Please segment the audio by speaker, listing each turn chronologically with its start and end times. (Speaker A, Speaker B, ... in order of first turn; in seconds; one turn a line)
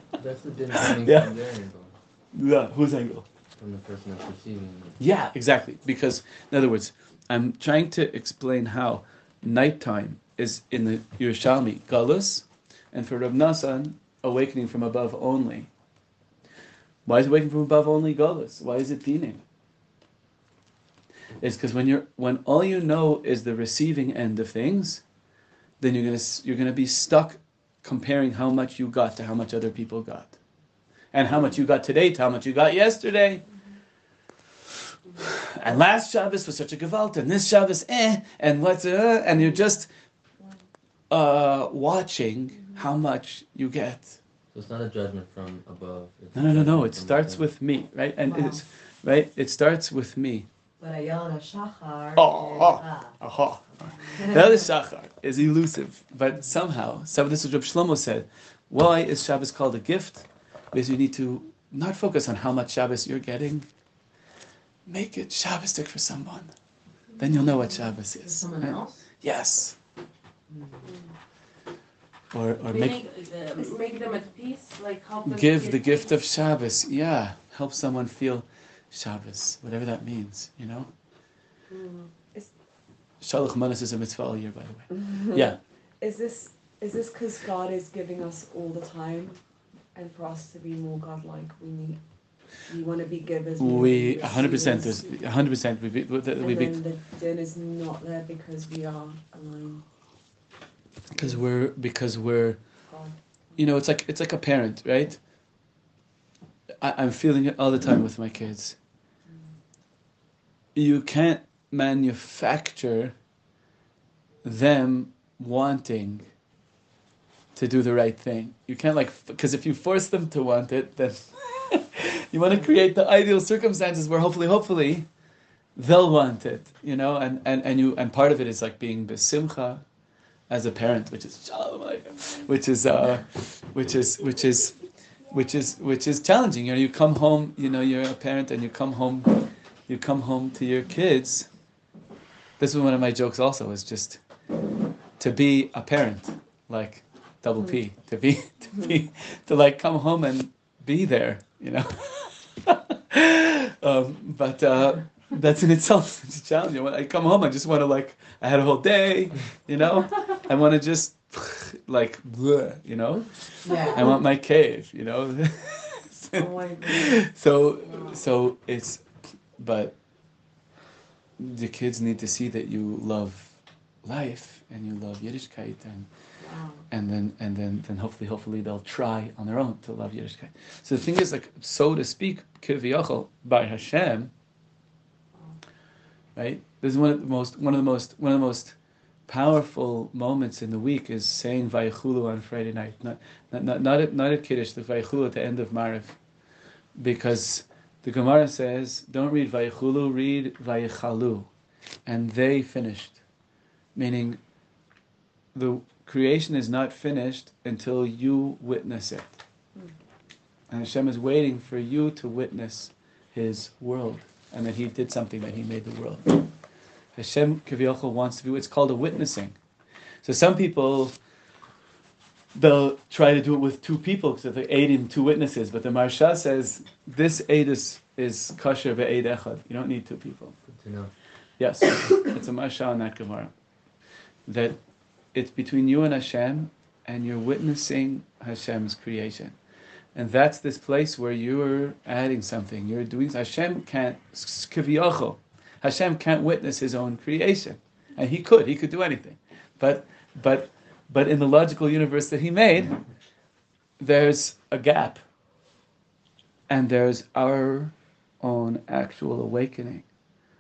Speaker A: 0.2-1.9
Speaker B: 0.8-1.4
Speaker B: 2.3-3.2
Speaker A: 3.6-5.0
Speaker B: 5.0-15.7
Speaker B: 17.1-19.4
Speaker B: 21.4-25.0
Speaker B: 25.8-30.3
Speaker B: 31.1-33.4
Speaker B: 35.2-39.9
Speaker B: 41.1-44.2
Speaker A: 44.5-47.5
Speaker B: 46.3-50.5
Speaker C: 48.3-48.6
Speaker C: 50.8-53.2
Speaker B: 52.2-63.7
Speaker B: 64.9-66.5
Speaker B: 67.2-69.8
Speaker C: 68.3-68.9
Speaker D: 70.5-70.8
Speaker B: 72.3-73.0
Speaker E: 72.7-76.2
Speaker B: 75.2-80.9
Speaker E: 81.7-82.1
Speaker B: 83.2-85.6
Speaker D: 84.9-89.4
Speaker D: 89.9-92.0
Speaker D: 92.7-95.2
Speaker B: 93.6-96.8
Speaker D: 96.4-99.8
Speaker B: 101.1-102.6
Speaker D: 102.9-103.1
Speaker B: 103.6-105.2
Speaker B: 106.8-108.8
Speaker B: 110.8-113.1
Speaker B: 114.4-116.2
Speaker B: 117.5-125.1
Speaker B: 125.8-129.8
Speaker B: 130.5-134.8
Speaker B: 135.3-141.5
Speaker B: 142.6-144.2
Speaker B: 145.2-169.0
Speaker C: 163.6-164.1
Speaker D: 163.7-164.0
Speaker D: 166.3-167.2
Speaker B: 169.6-169.9
Speaker B: 171.4-176.1
Speaker D: 176.4-176.8
Speaker B: 176.9-184.3
Speaker B: 186.4-188.8
Speaker B: 189.3-196.2
Speaker B: 197.0-201.5
Speaker B: 202.1-203.2
Speaker B: 203.9-204.4
Speaker B: 205.6-209.4
Speaker B: 210.7-216.5
Speaker B: 217.2-219.6
Speaker B: 220.2-221.2
Speaker B: 222.6-230.6
Speaker A: 230.7-231.1
Speaker B: 231.6-233.5
Speaker B: 234.5-234.8
Speaker B: 235.3-239.6
Speaker B: 240.2-253.0
Speaker B: 254.0-255.2
Speaker B: 256.7-260.1